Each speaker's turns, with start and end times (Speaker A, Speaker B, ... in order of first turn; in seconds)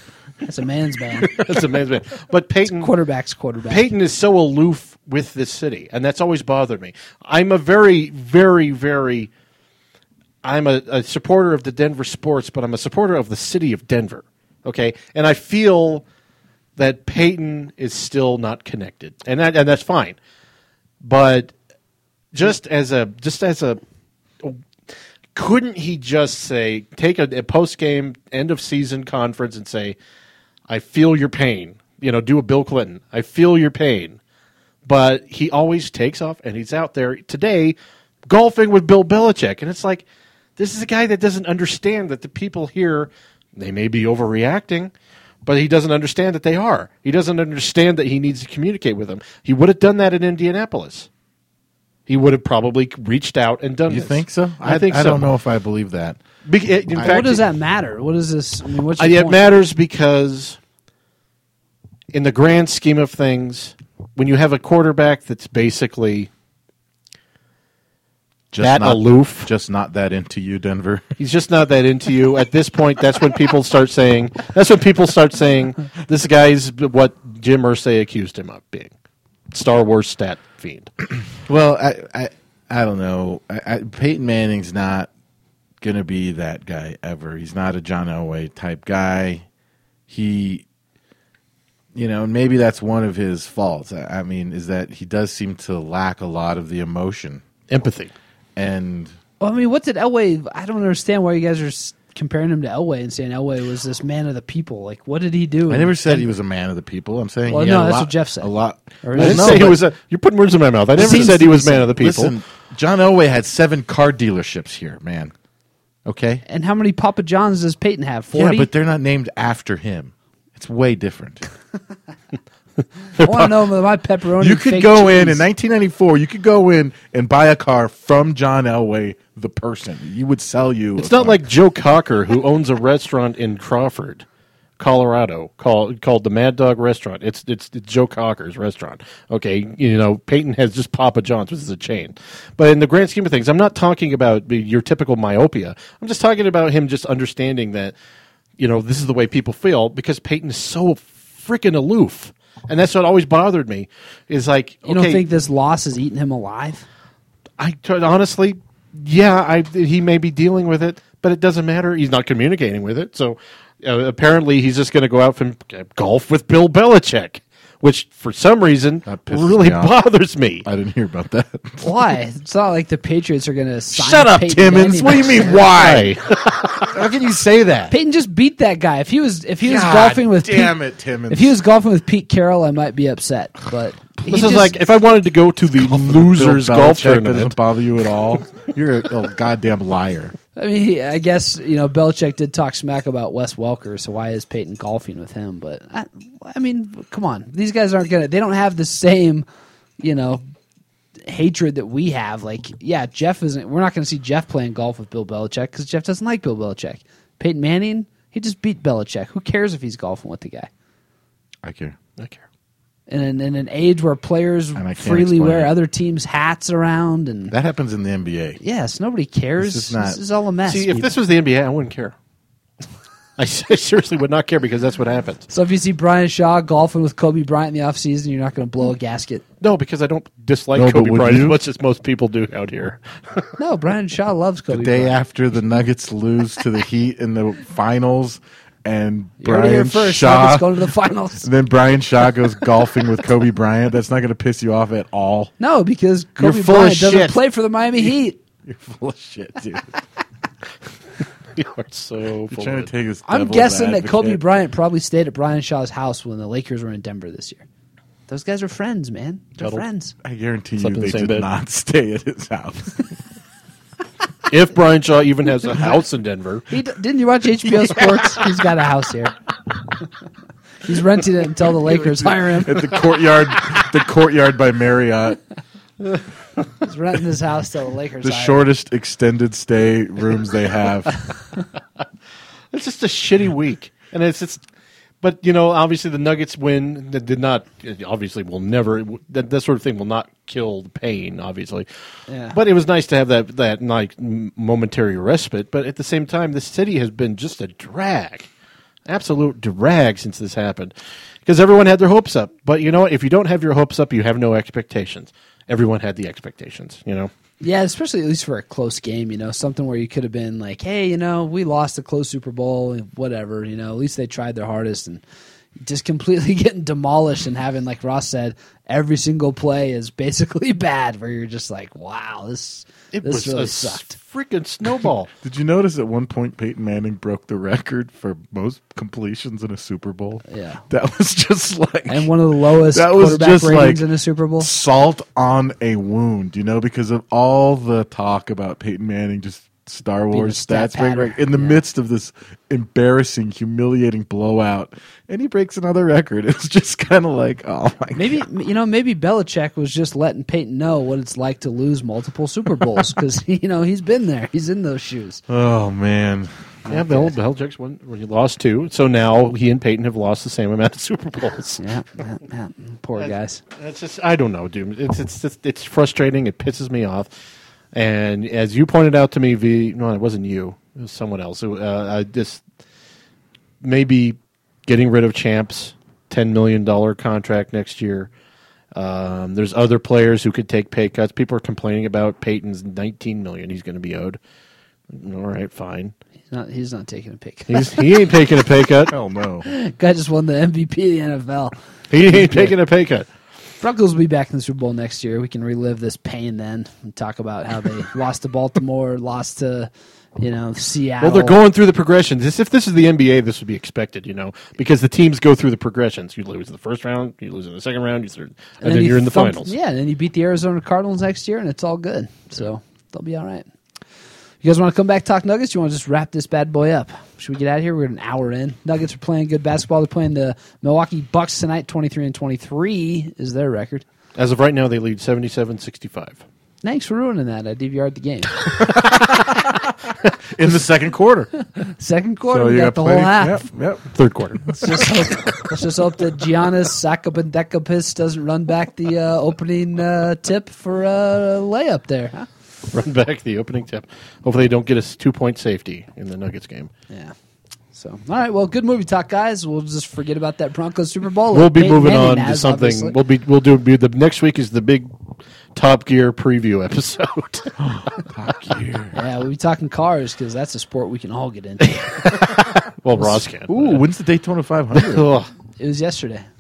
Speaker A: 0.4-1.4, 2.7-3.9, 57.0-59.6, 99.4-106.3, 107.5-108.5, 109.0-109.7, 111.0-111.6, 116.5-118.7, 123.2-125.4, 154.9-156.9, 171.8-175.6, 177.9-180.8, 181.3-184.7, 190.6-199.4, 200.0-200.4, 201.3-210.7, 213.1-217.5, 218.6-221.1, 225.5-229.4, 233.6-235.2, 239.4-241.5, 245.6-248.4, 253.3-257.6, 258.3-260.1, 266.7-269.4, 270.8-272.9, 276.8-278.6, 292.3-292.6, 307.6-315.2, 315.8-324.1, 330.5-330.8, 332.1-334.7, 340.3-341.8, 348.1-355.4, 361.8-363.6, 386.5-388.2, 389.6-391.7, 392.3-392.7, 393.8-401.6, 408.8-413.6, 414.6-424.1, 426.8-428.6, 431.8-433.7, 434.7-442.5, 447.9-453.1, 459.1-462.4, 465.8-466.4
Speaker B: 1.2-2.9, 3.7-9.3, 10.4-16.0, 16.8-20.2, 21.0-21.5, 22.3-23.8, 25.3-29.9, 30.7-34.2, 34.8-37.8, 38.3-40.0, 40.6-44.9, 45.4-51.1, 52.1-55.2, 56.4-57.4, 59.0-60.6, 62.1-66.3, 68.6-69.5, 71.2-78.9, 79.5-80.9, 97.7-98.1, 109.2-112.3, 123.2-123.5, 131.0-134.2, 134.8-147.9, 148.6-155.2, 157.6-170.7, 175.1-176.9, 184.3-187.6, 220.7-222.1, 223.4-225.4, 229.6-233.5, 251.6-252.9, 260.8-261.5, 264.5-266.7, 282.7-284.6, 285.2-291.9, 292.5-298.5, 299.1-300.9, 301.4-307.3, 323.1-325.3, 356.9-361.8, 363.2-367.3, 367.9-372.6, 373.8-378.3, 378.9-384.4, 385.1-386.1, 387.7-389.1, 392.1-393.3, 401.2-409.7, 424.4-426.4, 434.1-435.5, 442.9-446.9, 451.5-455.1, 455.7-457.8, 462.0-464.1, 464.9-465.5
Speaker C: 53.9-56.2, 68.5-71.1, 81.5-85.1, 85.8-89.4, 90.1-90.6, 91.9-97.4, 98.5-99.1, 105.7-109.8, 111.0-115.3, 116.0-116.4, 118.3-121.4, 124.4-131.4, 169.1-169.9, 170.6-171.9, 173.9-176.2, 176.9-177.9, 179.6-181.6, 184.2-184.6, 185.8-190.3, 211.6-212.0, 214.8-215.7, 217.5-218.6, 219.6-220.2, 230.7-231.6, 234.7-240.7, 241.4-245.5, 246.4-247.4, 248.6-249.9, 252.5-254.4, 260.2-263.1, 272.4-275.4, 278.2-281.2, 325.4-334.1, 334.6-348.4, 355.5-356.9, 389.1-389.7, 428.8-429.9, 430.5-431.5, 432.5-434.1, 457.8-459.1, 463.7-465.3